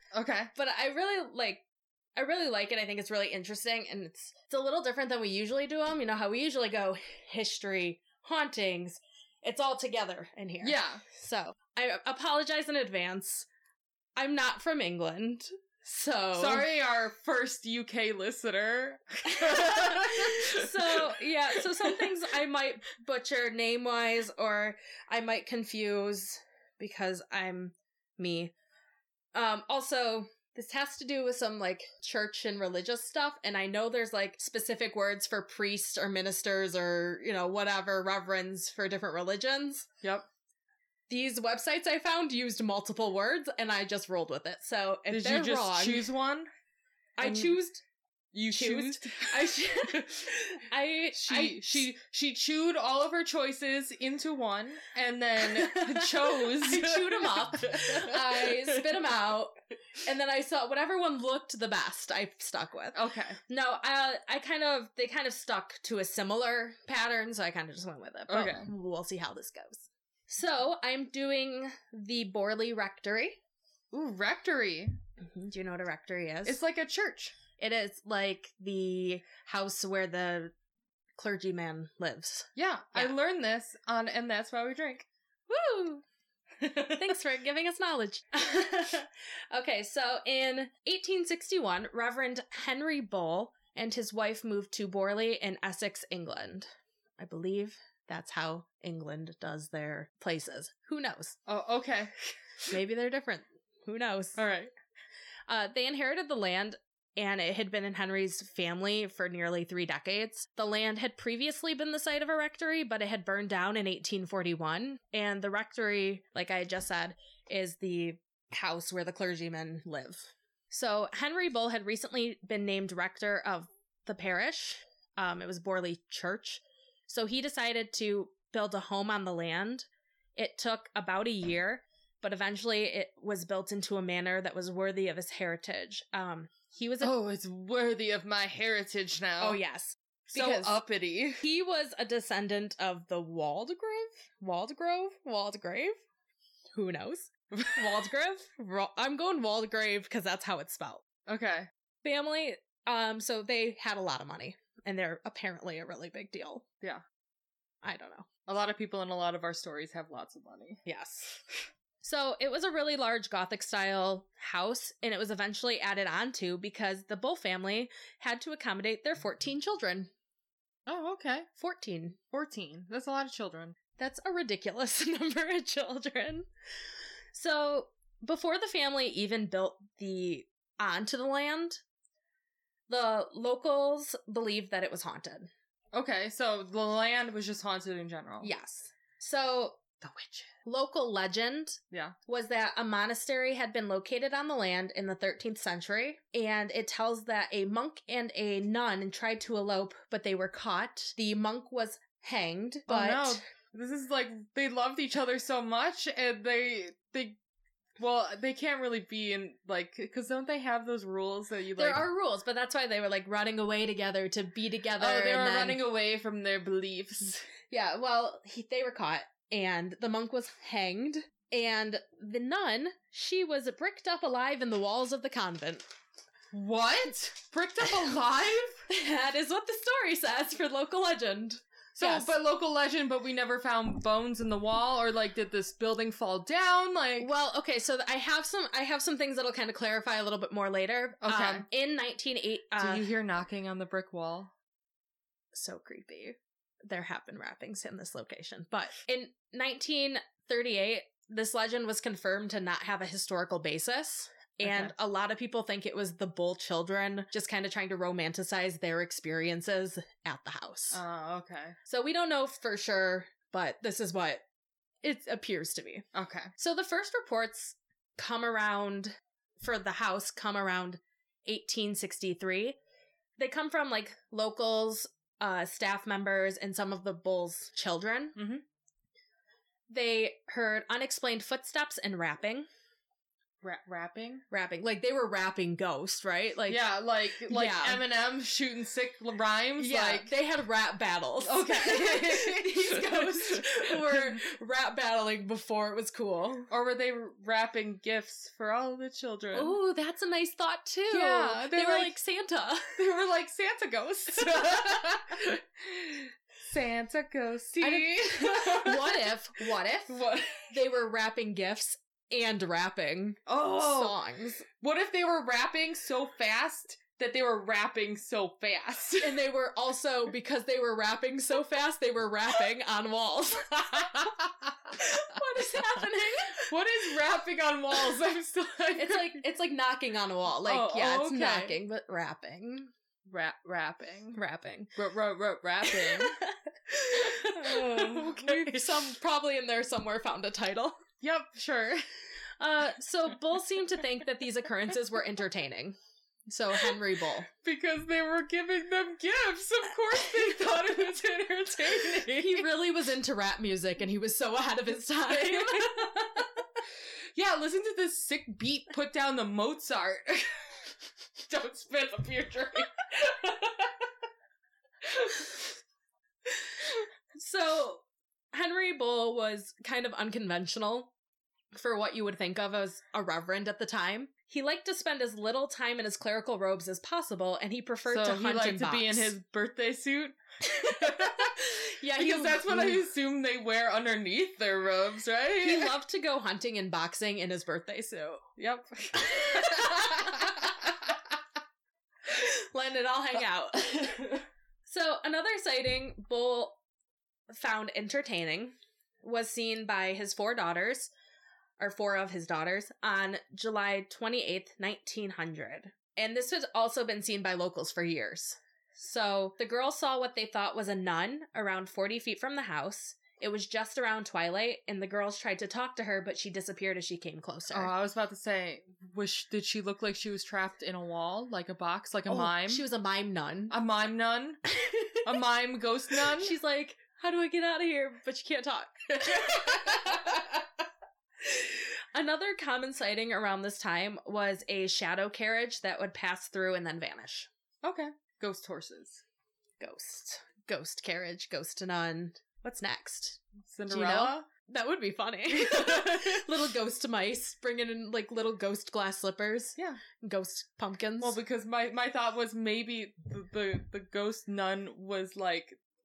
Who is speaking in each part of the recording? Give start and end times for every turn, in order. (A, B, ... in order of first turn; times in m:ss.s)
0:00.1-0:00.5 A
0:00.6-0:01.6 B
0:02.2-0:13.5 B
0:10.6-0:11.0 A
0:14.2-0:16.7 B
0:16.4-0:22.1 A
0:19.3-0:28.5 B
0:29.3-0:39.9 B
0:41.1-0:46.1 B
0:45.1-0:46.5 A
0:47.2-0:47.8 B
0:47.2-0:47.6 A
0:48.3-0:49.7 A
0:48.5-0:51.9 B
0:51.1-0:59.0 A
0:55.4-0:59.5 B
1:00.0-1:13.4 B
1:02.9-1:03.4 A
1:08.3-1:08.7 A
1:13.9-1:15.0 A
1:15.2-1:16.6 B
1:16.4-1:17.4 A
1:17.6-1:20.5 B
1:21.2-1:23.2 B
1:22.6-1:25.1 A
1:25.5-1:26.0 B
1:26.6-1:27.0 A
1:26.9-1:41.4 B
1:41.5-1:42.1 A
1:42.7-1:44.4 B
1:44.4-1:44.7 A
1:45.5-2:17.1 B
2:17.0-2:19.6 A
2:19.4-2:20.8 B
2:20.3-2:21.4 A
2:21.4-2:26.0 B
2:26.7-2:31.0 B
2:27.5-2:27.9 A
2:31.3-2:31.7 A
2:32.0-2:36.6 B
2:37.8-2:38.3 B
2:38.5-2:40.8 A
2:40.9-2:41.4 B
2:42.0-2:50.1 B
2:50.9-2:51.5 A
2:51.6-2:52.2 B
2:52.3-2:53.8 A
2:54.0-2:56.5 B
2:57.3-3:01.8 B
3:02.9-3:05.5 B
3:05.9-3:08.5 A
3:08.4-3:09.8 B
3:10.0-3:10.5 A
3:10.6-3:23.4 B
3:22.9-3:27.4 A
3:28.0-3:32.1 A
3:31.8-3:35.8 B
3:35.0-3:37.5 A
3:37.7-3:45.8 B
3:46.5-3:48.8 A
3:48.9-3:52.3 B
3:52.0-3:57.3 A
3:57.2-4:03.1 B
4:01.2-4:01.7 A
4:02.8-4:04.5 A
4:05.5-4:21.0 B
4:14.6-4:14.9 A
4:20.9-4:21.8 A
4:21.9-4:24.4 B
4:25.0-4:26.1 B
4:26.1-4:26.5 A
4:26.6-4:32.8 B
4:33.4-4:38.4 B
4:38.4-4:38.6 A
4:39.9-4:42.7 B
4:43.6-4:44.4 A
4:44.5-4:46.8 B
4:46.7-4:50.3 A
4:47.5-4:48.0 B
4:49.8-4:56.7 B
4:51.4-4:54.4 A
4:56.7-4:59.8 A
4:59.5-5:03.0 B
5:01.1-5:02.2 A
5:03.0-5:09.3 A
5:04.4-5:05.1 B
5:07.8-5:14.6 B
5:10.1-5:10.7 A
5:13.5-5:14.2 A
5:14.8-5:19.5 A
5:19.2-5:24.4 B
5:23.9-5:26.0 A
5:24.9-5:26.7 B
5:26.6-5:29.4 A
5:29.0-5:32.9 B
5:30.6-5:31.8 A
5:33.3-5:34.4 A
5:34.4-5:34.9 B
5:35.0-5:36.4 A
5:35.8-5:41.0 B
5:37.1-5:39.1 A
5:41.2-5:42.1 A
5:42.6-5:47.5 B
5:47.6-5:52.7 A
5:52.3-5:56.4 B
5:55.3-5:56.5 A
5:57.4-6:00.7 A
6:01.4-6:03.9 A
6:05.2-6:05.4 A
6:06.8-6:11.1 B
6:11.7-6:19.4 B
6:18.1-6:21.6 A
6:20.6-6:23.1 B
6:22.2-6:26.0 A
6:25.6-6:28.4 B
6:28.6-6:31.2 A
6:29.2-6:30.6 B
6:32.2-6:36.8 B
6:37.5-6:41.1 B
6:41.8-6:57.9 B
6:57.7-7:02.9 A
7:02.3-7:03.8 B
7:03.7-7:04.6 A
7:04.7-7:05.4 B
7:05.2-7:06.6 A
7:06.1-7:10.7 B
7:09.2-7:10.4 A
7:11.4-7:17.5 B
7:17.8-7:19.2 A
7:19.8-7:31.4 B
7:23.6-7:24.5 A
7:25.7-7:26.4 A
7:29.8-7:30.0 A
7:31.2-7:35.8 A